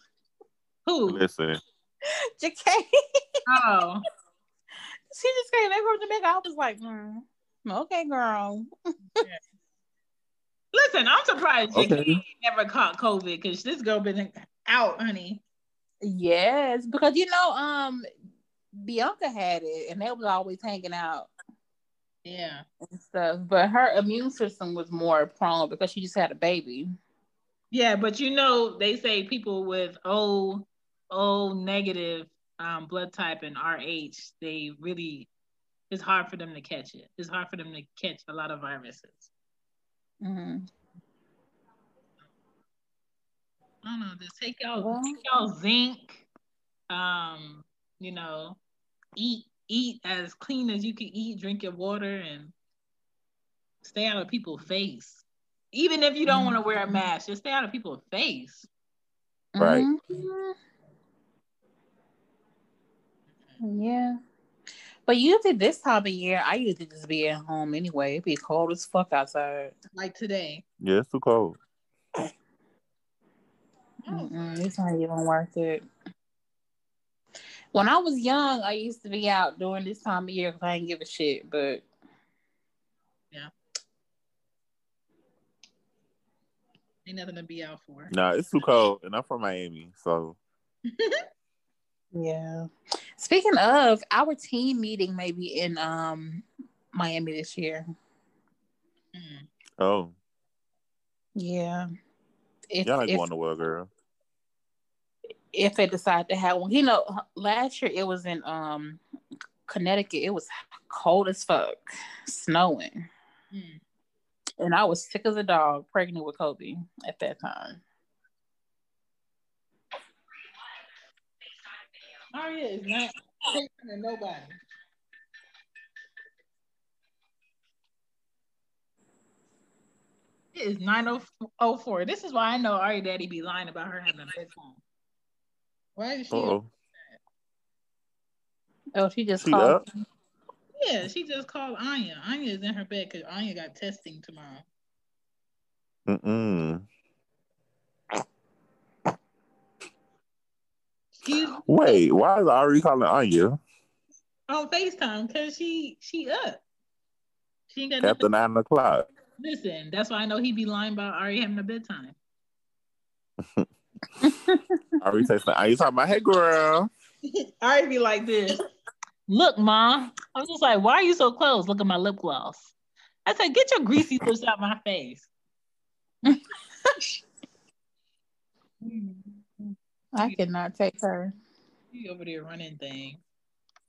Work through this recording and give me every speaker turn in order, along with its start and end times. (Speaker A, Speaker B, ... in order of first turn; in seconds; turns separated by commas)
Speaker A: 0.9-1.2, Speaker B: 1.1-1.6, Speaker C: 2.4-2.9, Speaker A: 3.5-4.0, Speaker C: 5.1-8.7, Speaker A: 10.7-15.4, Speaker B: 11.8-12.2, Speaker C: 16.0-18.1, Speaker C: 18.7-21.3, Speaker A: 22.3-22.6, Speaker C: 22.9-26.9, Speaker A: 27.7-35.3, Speaker A: 35.9-39.3, Speaker C: 40.2-40.7, Speaker A: 43.8-46.3, Speaker C: 44.8-45.2, Speaker A: 46.9-48.6, Speaker A: 49.2-52.5, Speaker A: 53.8-58.7, Speaker C: 56.3-56.6, Speaker C: 59.5-60.5, Speaker B: 59.6-59.9, Speaker C: 63.6-64.2, Speaker C: 65.1-69.7, Speaker A: 70.0-70.6, Speaker B: 70.8-71.6, Speaker A: 74.1-74.4, Speaker C: 74.1-75.8, Speaker C: 77.7-81.8, Speaker A: 87.0-88.1, Speaker B: 88.1-90.4, Speaker A: 90.9-91.2, Speaker C: 92.1-97.9, Speaker A: 99.1-99.5, Speaker B: 99.8-100.1, Speaker C: 101.4-101.9, Speaker C: 102.7-103.3, Speaker B: 102.8-103.9, Speaker C: 105.5-109.0, Speaker C: 109.7-113.1, Speaker A: 113.5-113.8, Speaker C: 114.6-117.8, Speaker A: 122.3-124.6, Speaker A: 130.5-134.8, Speaker A: 136.0-136.6, Speaker B: 136.3-136.7, Speaker C: 139.0-140.0, Speaker B: 139.4-139.8, Speaker A: 140.8-144.7, Speaker B: 146.1-146.8, Speaker A: 151.2-152.0, Speaker B: 151.7-153.6, Speaker A: 154.5-156.6, Speaker A: 157.7-158.3, Speaker B: 158.0-159.1, Speaker A: 159.4-162.2, Speaker C: 164.2-164.8, Speaker B: 165.0-166.9, Speaker A: 167.3-168.6, Speaker A: 169.3-172.7, Speaker A: 173.3-175.3, Speaker C: 176.3-177.0, Speaker A: 178.8-179.2, Speaker C: 179.6-181.3, Speaker A: 181.9-183.2